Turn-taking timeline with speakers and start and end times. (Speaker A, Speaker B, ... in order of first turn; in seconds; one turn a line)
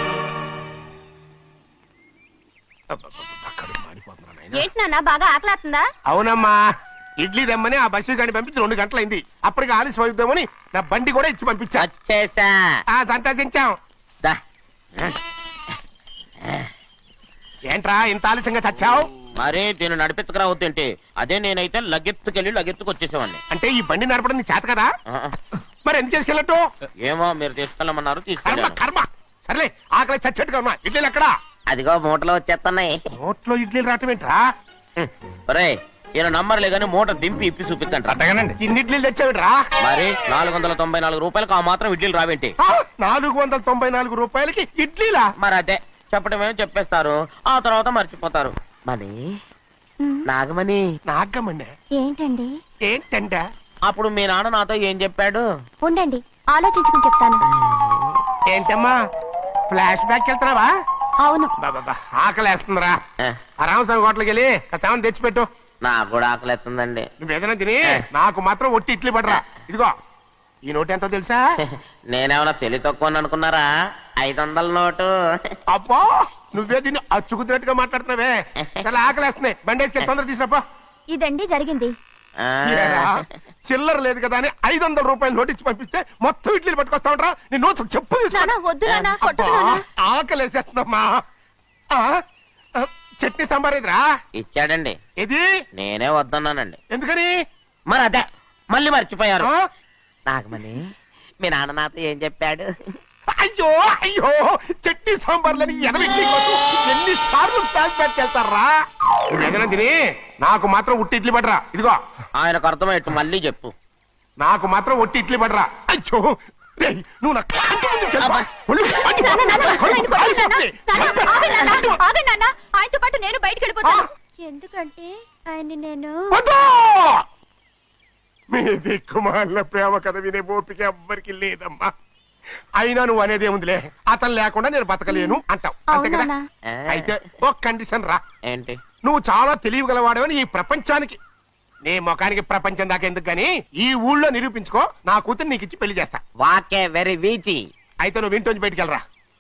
Speaker A: 2.9-4.7
Speaker B: 4.5-5.8
Speaker A: 6.1-6.6
Speaker A: 7.2-11.9
Speaker C: 11.8-12.6
Speaker A: 12.9-13.8
Speaker A: 17.7-19.1
Speaker C: 19.4-23.4
Speaker A: 23.5-24.9
Speaker A: 25.9-26.6
Speaker C: 27.0-28.8
Speaker A: 28.5-31.3
Speaker C: 31.7-33.0
Speaker A: 33.2-34.4
Speaker C: 35.0-38.2
Speaker A: 38.6-39.6
Speaker C: 39.8-42.5
Speaker A: 42.6-45.3
Speaker C: 45.4-49.1
Speaker C: 50.3-50.8
Speaker A: 51.1-51.7
Speaker B: 51.9-52.5
Speaker A: 52.9-53.4
Speaker C: 53.9-55.4
Speaker B: 55.8-57.4
Speaker A: 58.5-59.0
Speaker A: 59.7-60.7
Speaker B: 61.2-61.5
Speaker A: 61.6-63.0
Speaker A: 63.6-65.5
Speaker C: 65.8-67.1
Speaker A: 67.2-69.9
Speaker A: 70.7-71.4
Speaker C: 72.1-73.7
Speaker C: 74.2-75.1
Speaker A: 75.7-80.6
Speaker C: 78.8-79.1
Speaker B: 81.1-81.9
Speaker C: 82.4-83.2
Speaker A: 82.7-88.5
Speaker B: 88.3-89.8
Speaker C: 88.8-89.2
Speaker A: 89.2-91.1
Speaker A: 92.8-94.0
Speaker C: 94.4-95.0
Speaker A: 95.2-95.5
Speaker C: 95.8-96.8
Speaker A: 96.9-97.3
Speaker C: 97.9-99.5
Speaker C: 100.3-100.8
Speaker C: 101.4-102.7
Speaker A: 103.4-108.7
Speaker A: 109.3-112.0
Speaker C: 112.4-113.7
Speaker A: 114.4-122.0
Speaker C: 118.2-118.5
Speaker B: 118.9-126.4
Speaker A: 126.3-127.2
Speaker A: 128.5-131.9
Speaker A: 132.8-136.3
Speaker B: 135.1-136.3
Speaker C: 136.7-137.4
Speaker A: 136.9-138.2
Speaker C: 138.5-138.8
Speaker A: 139.0-141.2
Speaker A: 141.8-146.2
Speaker C: 146.4-147.6
Speaker A: 148.0-149.0